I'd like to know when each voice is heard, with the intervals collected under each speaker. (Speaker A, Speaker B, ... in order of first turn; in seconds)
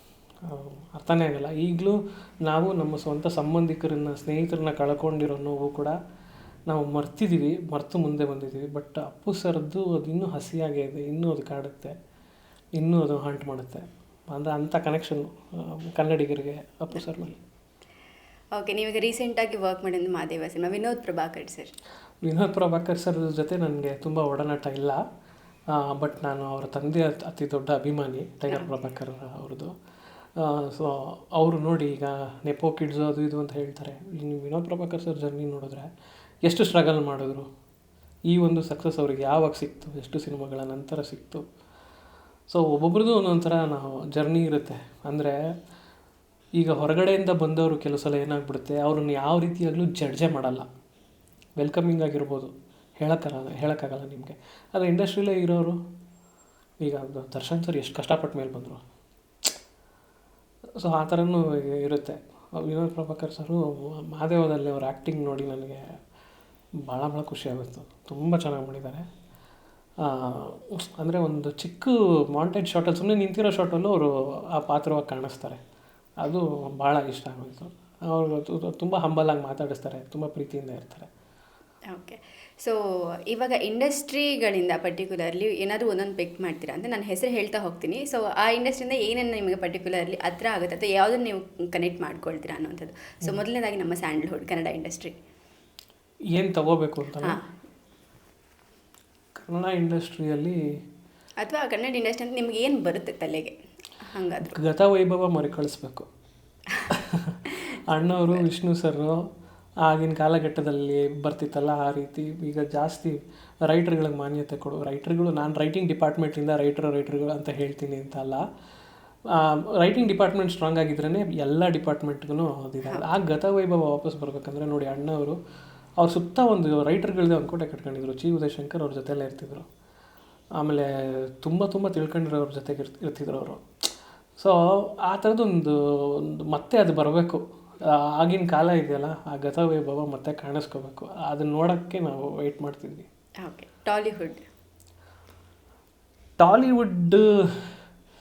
Speaker A: 0.4-6.0, 6.7-11.9, 12.8-17.4, 22.2-25.0, 25.7-29.7, 30.4-35.9, 36.5-37.5, 38.3-41.5, 42.5-45.4, 46.6-50.7, 51.6-55.8, 56.8-58.8, 60.8-66.0, 66.9-69.1, 70.0-75.6, 76.2-81.1, 96.3-97.4, 99.4-100.6, 104.4-106.1, 106.9-109.2, 109.8-118.4, 119.3-125.4, 126.0-129.7, 130.6-133.6, 134.4-143.1, 146.4-147.7
Speaker B: 18.6-21.7, 81.9-95.2, 97.2-97.5, 101.4-104.6, 107.7-108.5, 143.4-144.4